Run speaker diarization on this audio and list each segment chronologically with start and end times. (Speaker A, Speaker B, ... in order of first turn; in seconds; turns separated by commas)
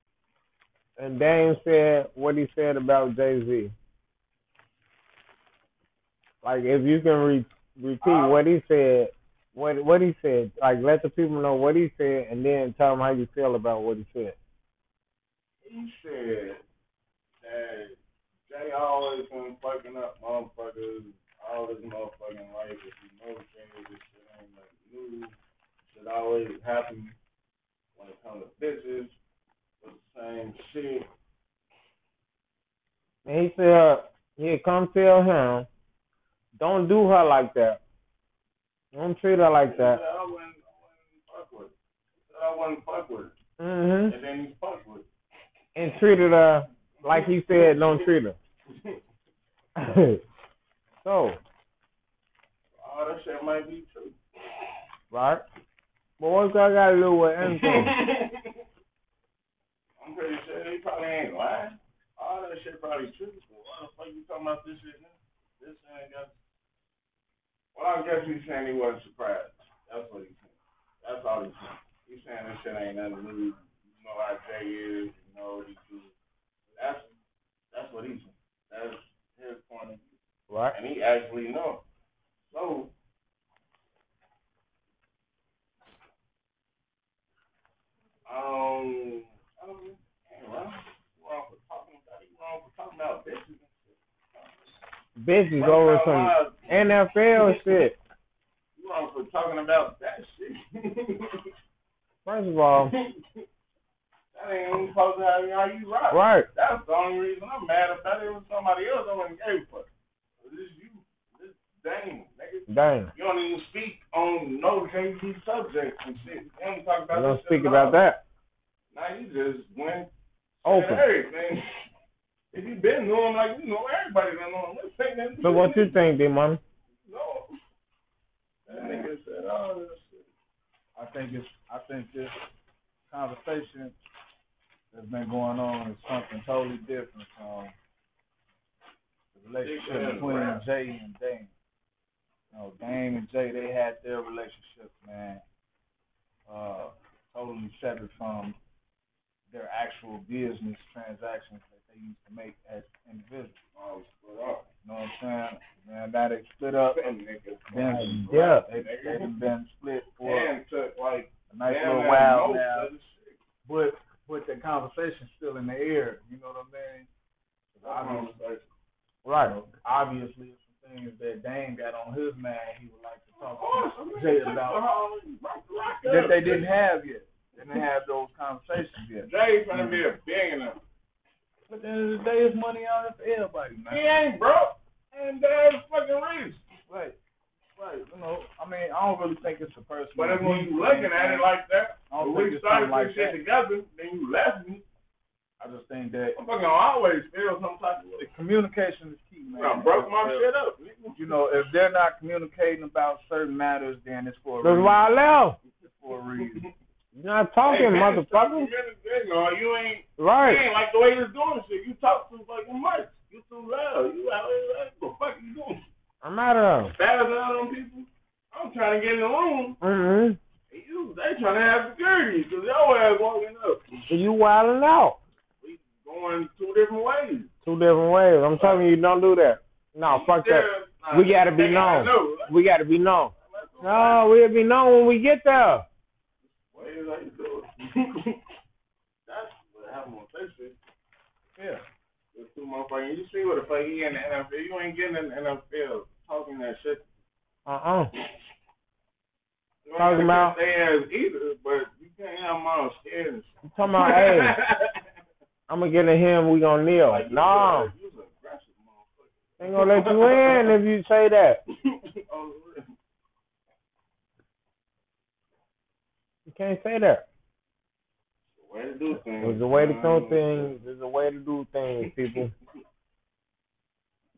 Speaker A: 1.0-3.7, Speaker A: 6.4-14.4, Speaker B: 8.0-8.4, Speaker B: 15.6-16.6, Speaker B: 17.4-25.4, Speaker B: 25.9-27.2, Speaker B: 28.0-29.2, Speaker B: 29.8-31.1, Speaker A: 33.2-35.7, Speaker A: 36.6-37.8, Speaker A: 38.9-40.0, Speaker B: 39.6-43.4, Speaker A: 43.6-44.1, Speaker B: 44.1-45.1, Speaker A: 45.8-48.4, Speaker B: 47.0-48.1, Speaker B: 48.7-49.0, Speaker A: 49.8-50.2, Speaker A: 51.0-51.4, Speaker B: 52.8-54.2, Speaker A: 55.1-55.4, Speaker A: 56.2-58.0, Speaker B: 57.4-58.5, Speaker B: 60.0-66.3, Speaker B: 67.7-76.1, Speaker B: 76.8-77.1, Speaker B: 77.7-80.2, Speaker A: 80.5-80.8, Speaker B: 80.7-81.8, Speaker B: 82.5-82.9, Speaker B: 88.3-94.7, Speaker A: 95.2-98.0, Speaker B: 95.6-97.8, Speaker B: 98.8-101.5, Speaker A: 102.2-102.9, Speaker B: 102.8-103.4, Speaker B: 104.3-109.9, Speaker A: 106.1-106.5, Speaker B: 110.4-118.0, Speaker A: 112.7-113.1, Speaker A: 117.1-118.2, Speaker B: 118.9-120.1, Speaker B: 120.6-121.6, Speaker A: 120.7-121.0, Speaker B: 122.5-126.0, Speaker A: 125.4-126.6, Speaker B: 127.0-127.5, Speaker B: 128.7-130.3, Speaker C: 128.7-129.1, Speaker C: 130.9-132.5, Speaker C: 133.1-134.0, Speaker C: 134.9-137.7, Speaker C: 139.3-141.5, Speaker B: 139.6-140.6, Speaker C: 142.5-145.4, Speaker C: 146.5-148.6, Speaker C: 149.5-153.6, Speaker B: 153.7-154.7, Speaker C: 154.8-157.1, Speaker B: 156.9-159.3, Speaker C: 157.7-160.5, Speaker A: 157.9-158.6, Speaker B: 160.2-163.4, Speaker C: 161.5-162.9, Speaker C: 163.7-167.1, Speaker C: 167.8-168.4, Speaker B: 167.8-168.7, Speaker A: 169.2-169.6, Speaker C: 169.4-174.8, Speaker B: 173.3-176.7, Speaker C: 176.0-180.0, Speaker B: 177.6-177.9, Speaker B: 179.2-180.8, Speaker C: 181.7-184.1, Speaker B: 183.9-186.7, Speaker C: 186.9-187.2, Speaker C: 187.8-191.5, Speaker B: 190.2-194.8, Speaker C: 192.1-193.4, Speaker C: 195.6-196.4, Speaker B: 196.3-198.3, Speaker C: 198.2-200.5, Speaker B: 199.5-201.4, Speaker C: 201.2-205.1, Speaker A: 204.6-205.6, Speaker C: 206.0-206.7, Speaker B: 206.4-206.7, Speaker A: 207.1-208.7, Speaker B: 207.7-215.8, Speaker A: 210.2-210.6, Speaker A: 216.2-216.9, Speaker B: 216.8-219.8, Speaker A: 219.8-220.4, Speaker B: 220.7-223.9, Speaker A: 224.1-225.2, Speaker B: 225.6-227.5, Speaker A: 227.6-235.9, Speaker B: 228.6-228.8, Speaker B: 230.1-232.7, Speaker B: 233.3-234.3, Speaker B: 236.4-238.4, Speaker B: 239.3-240.8, Speaker C: 241.6-241.8, Speaker B: 242.3-247.1, Speaker A: 247.7-248.1, Speaker B: 249.8-255.0, Speaker A: 250.0-250.6, Speaker A: 253.7-254.6, Speaker A: 255.7-257.9, Speaker B: 257.0-260.7, Speaker A: 259.6-261.6, Speaker B: 261.9-262.9, Speaker A: 266.5-267.3, Speaker B: 268.5-270.8, Speaker A: 269.4-272.5